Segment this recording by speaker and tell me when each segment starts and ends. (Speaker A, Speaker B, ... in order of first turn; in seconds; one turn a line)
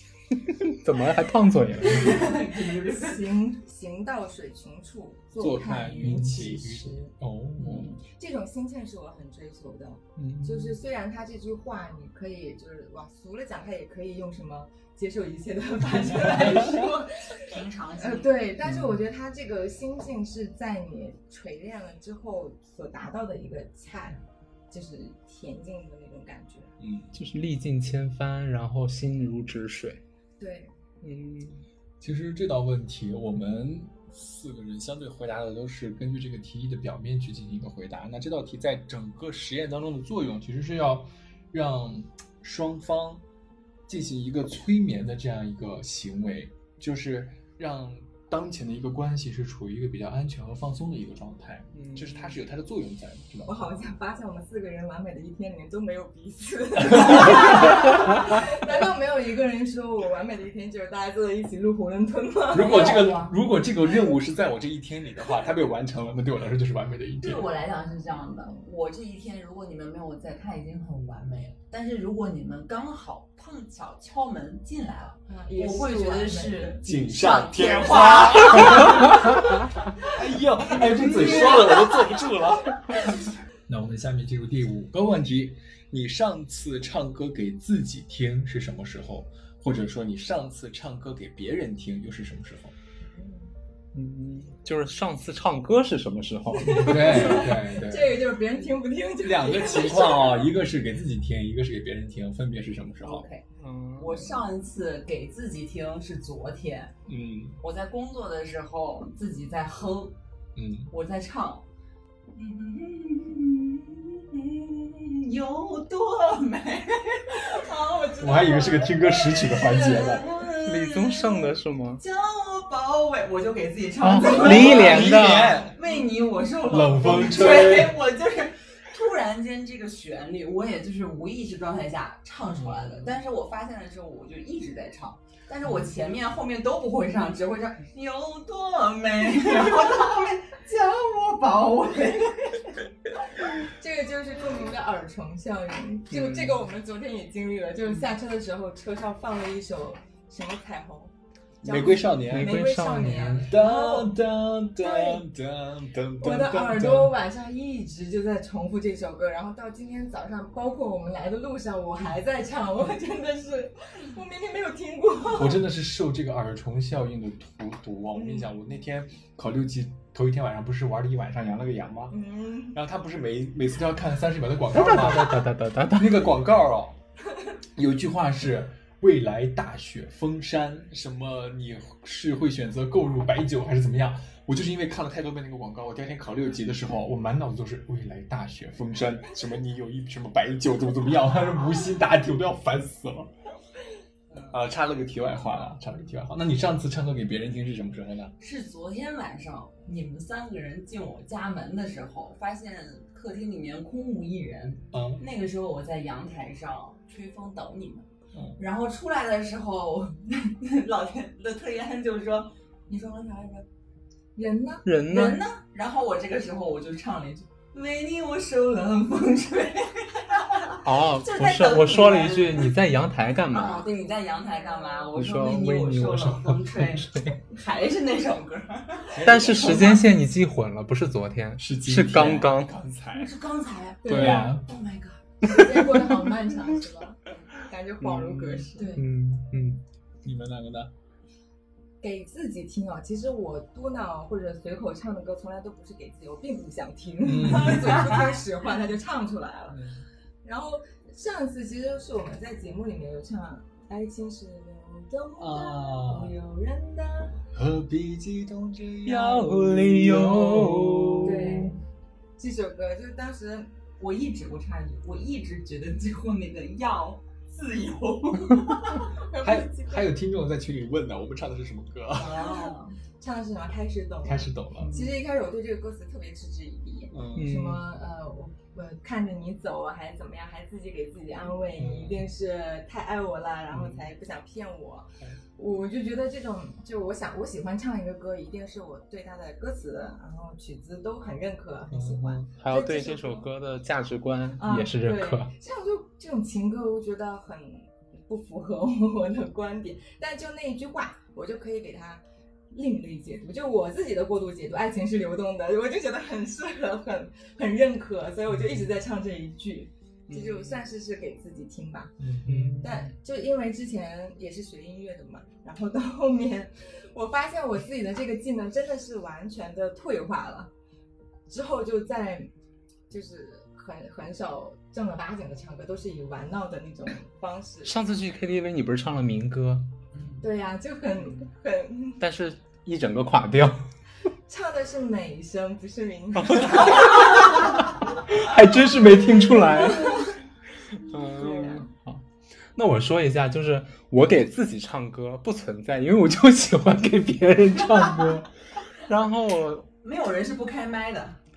Speaker A: 0.4-2.3
Speaker B: 1.8-3.3
Speaker C: 1.9-26.7
Speaker D: 5.4-7.9
Speaker A: 10.2-10.8
Speaker B: 17.4-18.4
Speaker A: 18.6-19.0
Speaker D: 26.8-27.2
Speaker A: 27.1-30.0
Speaker C: 30.4-30.7
Speaker A: 31.0-31.6
Speaker D: 32.0-43.2
Speaker D: 43.9-53.7
Speaker A: 51.7-52.4
Speaker C: 53.5-63.1
Speaker D: 57.0-57.3
Speaker D: 62.5-67.5
Speaker B: 62.5-63.3
Speaker B: 67.2-79.4
Speaker C: 75.3-76.8
Speaker D: 76.8-79.2
Speaker D: 80.1-83.2
Speaker B: 80.8-82.1
Speaker D: 83.7-92.8
Speaker C: 93.1-93.5
Speaker A: 93.9-97.5
Speaker C: 96.5-100.4
Speaker D: 96.7-98.2
Speaker D: 99.2-103.3
Speaker B: 103.0-103.5
Speaker A: 103.6-104.4
Speaker B: 104.0-106.9
Speaker D: 107.1-107.6
Speaker B: 107.6-110.2
Speaker D: 110.6-110.9
Speaker B: 110.9-111.7
Speaker B: 112.3-118.5
Speaker C: 117.5-120.3
Speaker D: 118.2-120.3
Speaker B: 119.3-142.8
Speaker A: 120.7-122.0
Speaker A: 124.0-125.6
Speaker D: 124.3-125.8
Speaker D: 126.7-128.0
Speaker D: 132.7-133.1
Speaker C: 143.8-154.1
Speaker A: 146.1-146.7
Speaker D: 151.6-152.6
Speaker A: 152.3-153.5
Speaker D: 153.3-157.1
Speaker C: 154.8-155.2
Speaker C: 156.2-165.6
Speaker D: 165.3-172.2
Speaker C: 168.1-168.5
Speaker C: 172.1-172.8
Speaker D: 172.7-177.0
Speaker A: 174.7-176.3
Speaker D: 177.8-193.3
Speaker D: 194.5-198.3
Speaker B: 198.4-208.1
Speaker D: 204.9-205.2
Speaker D: 208.3-208.6
Speaker B: 208.6-213.7
Speaker C: 214.4-214.9
Speaker A: 214.8-215.4
Speaker B: 215.1-222.8
Speaker A: 220.8-223.9
Speaker B: 223.5-230.1
Speaker A: 225.1-227.4
Speaker D: 229.1-230.0
Speaker A: 229.2-232.8
Speaker D: 231.6-233.3
Speaker B: 233.2-235.6
Speaker C: 234.0-234.5
Speaker D: 234.1-234.7
Speaker A: 234.1-234.4
Speaker C: 235.4-239.0
Speaker A: 238.0-239.8
Speaker B: 238.8-239.1
Speaker D: 240.2-240.9
Speaker C: 242.0-249.8
Speaker D: 247.2-248.2
Speaker B: 247.5-248.5
Speaker D: 249.7-250.0
Speaker C: 250.4-257.4
Speaker D: 255.4-256.4
Speaker D: 257.5-261.3
Speaker A: 259.1-261.7
Speaker C: 261.2-261.8
Speaker C: 262.4-263.7
Speaker B: 264.0-269.2
Speaker C: 269.1-270.1
Speaker D: 269.4-272.6
Speaker B: 272.1-273.0
Speaker C: 273.2-293.5
Speaker D: 274.2-274.9
Speaker D: 277.1-277.5
Speaker A: 277.4-277.9
Speaker D: 281.8-282.3
Speaker D: 291.9-292.5
Speaker A: 292.6-295.5
Speaker C: 294.6-312.2
Speaker A: 310.3-310.8
Speaker D: 312.2-312.8
Speaker A: 312.4-313.1
Speaker C: 312.8-320.7
Speaker C: 321.5-322.5
Speaker C: 323.1-327.9
Speaker A: 327.9-329.9
Speaker B: 330.1-330.4
Speaker C: 330.4-332.2
Speaker A: 332.2-333.8
Speaker C: 334.5-337.4
Speaker A: 336.4-337.6
Speaker A: 338.3-340.4
Speaker C: 339.6-340.3
Speaker A: 340.9-349.9
Speaker C: 341.2-341.9
Speaker B: 347.9-348.3
Speaker B: 350.0-351.4